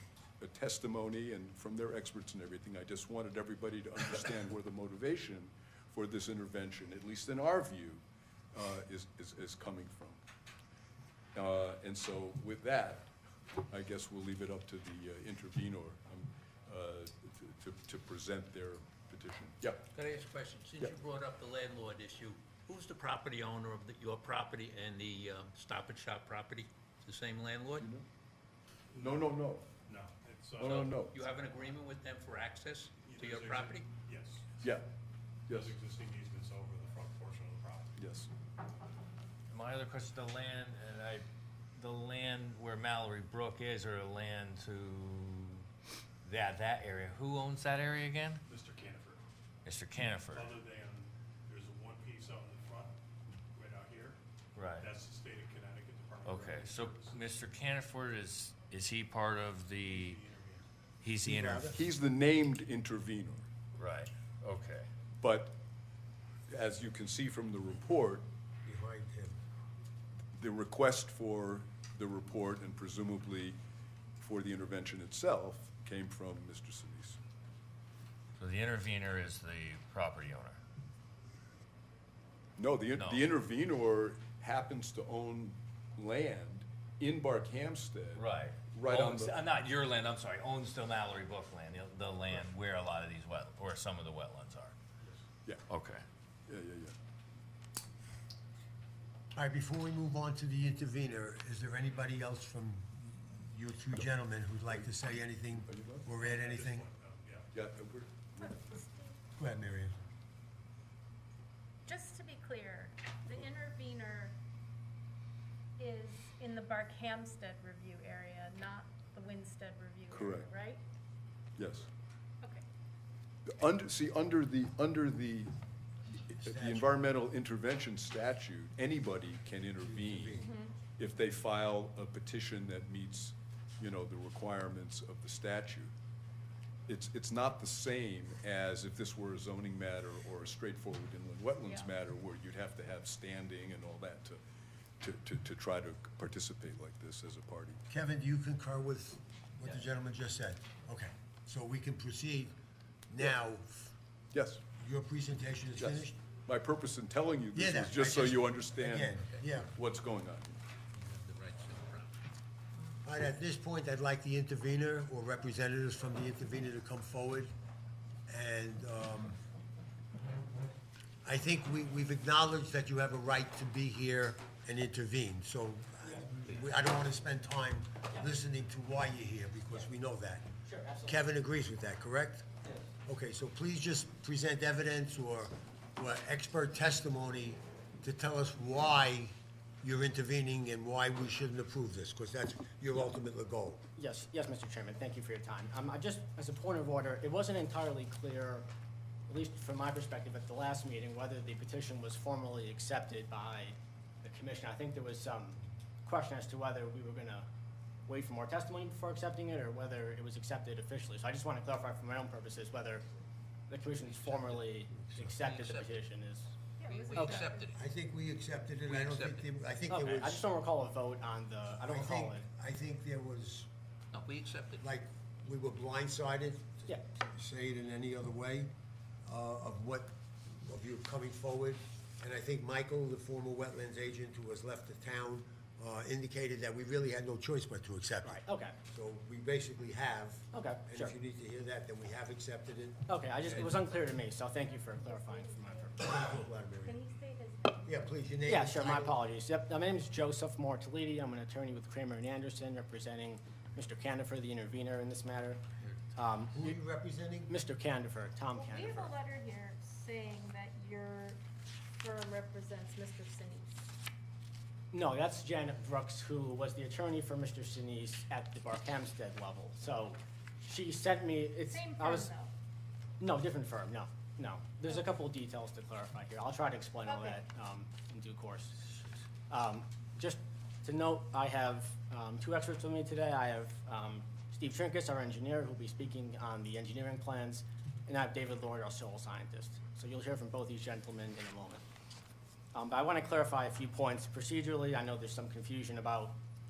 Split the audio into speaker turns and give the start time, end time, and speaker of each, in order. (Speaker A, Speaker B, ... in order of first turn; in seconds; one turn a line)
Speaker A: 0.4-8.0
Speaker A: 8.5-10.2
Speaker A: 11.3-13.1
Speaker A: 13.7-19.9
Speaker B: 19.9-27.9
Speaker A: 27.8-28.0
Speaker C: 28.9-29.3
Speaker A: 29.0-29.7
Speaker C: 29.9-30.9
Speaker A: 30.6-31.2
Speaker B: 30.6-33.9
Speaker C: 33.0-34.5
Speaker A: 34.6-34.9
Speaker A: 35.5-35.8
Speaker C: 35.5-38.0
Speaker A: 38.0-38.3
Speaker D: 39.5-41.2
Speaker D: 41.8-45.6
Speaker D: 46.2-48.4
Speaker C: 48.4-49.2
Speaker D: 49.6-50.5
Speaker C: 50.3-52.9
Speaker C: 53.5-54.2
Speaker D: 54.5-54.9
Speaker C: 54.8-57.5
Speaker D: 56.2-60.2
Speaker C: 59.7-60.6
Speaker D: 61.0-61.8
Speaker E: 61.2-61.8
Speaker A: 61.7-63.5
Speaker D: 63.7-64.9
Speaker A: 65.2-65.5
Speaker A: 66.5-68.2
Speaker E: 68.6-69.4
Speaker A: 70.3-73.6
Speaker A: 74.2-77.2
Speaker D: 78.4-80.6
Speaker A: 82.6-89.4
Speaker D: 82.9-83.3
Speaker D: 88.1-94.7
Speaker D: 95.7-96.0
Speaker A: 96.5-96.9
Speaker E: 99.3-106.8
Speaker A: 105.6-106.1
Speaker C: 106.2-107.5
Speaker A: 107.5-108.6
Speaker F: 108.4-109.2
Speaker E: 109.4-110.0
Speaker F: 111.8-114.3
Speaker F: 115.8-120.8
Speaker A: 120.1-120.5
Speaker A: 121.6-121.9
Speaker A: 123.5-125.5
Speaker E: 126.3-127.0
Speaker A: 126.3-135.9
Speaker E: 129.8-130.5
Speaker F: 130.4-130.7
Speaker A: 136.9-144.4
Speaker F: 141.6-141.9
Speaker A: 145.0-147.8
Speaker E: 147.9-152.5
Speaker E: 153.1-153.9
Speaker A: 154.3-154.6
Speaker E: 154.8-156.2
Speaker A: 155.8-160.6
Speaker E: 157.5-159.7
Speaker B: 160.9-162.1
Speaker E: 163.0-167.5
Speaker E: 168.3-169.4
Speaker E: 171.2-180.5
Speaker G: 180.7-181.2
Speaker E: 181.0-182.5
Speaker E: 183.0-193.8
Speaker G: 194.0-198.7
Speaker G: 199.3-207.5
Speaker G: 208.1-213.0
Speaker G: 213.7-216.5
Speaker B: 215.2-216.0
Speaker F: 216.8-217.8
Speaker B: 216.8-217.8
Speaker G: 217.1-217.4
Speaker E: 217.7-220.4
Speaker B: 218.8-219.4
Speaker G: 219.9-222.5
Speaker E: 221.8-223.7
Speaker B: 224.1-224.8
Speaker E: 224.8-228.7
Speaker E: 229.2-230.1
Speaker E: 230.6-243.8
Speaker G: 238.2-238.7
Speaker G: 240.5-241.1
Speaker G: 243.1-246.0
Speaker F: 244.5-248.1
Speaker E: 246.0-247.0
Speaker E: 247.8-249.2
Speaker G: 248.4-255.6
Speaker G: 256.1-256.8
Speaker E: 256.5-257.5
Speaker G: 257.5-259.1
Speaker F: 258.5-261.4
Speaker F: 262.0-263.8
Speaker G: 264.9-272.3
Speaker F: 271.6-272.5
Speaker G: 273.2-291.8
Speaker F: 277.0-277.4
Speaker G: 292.7-296.4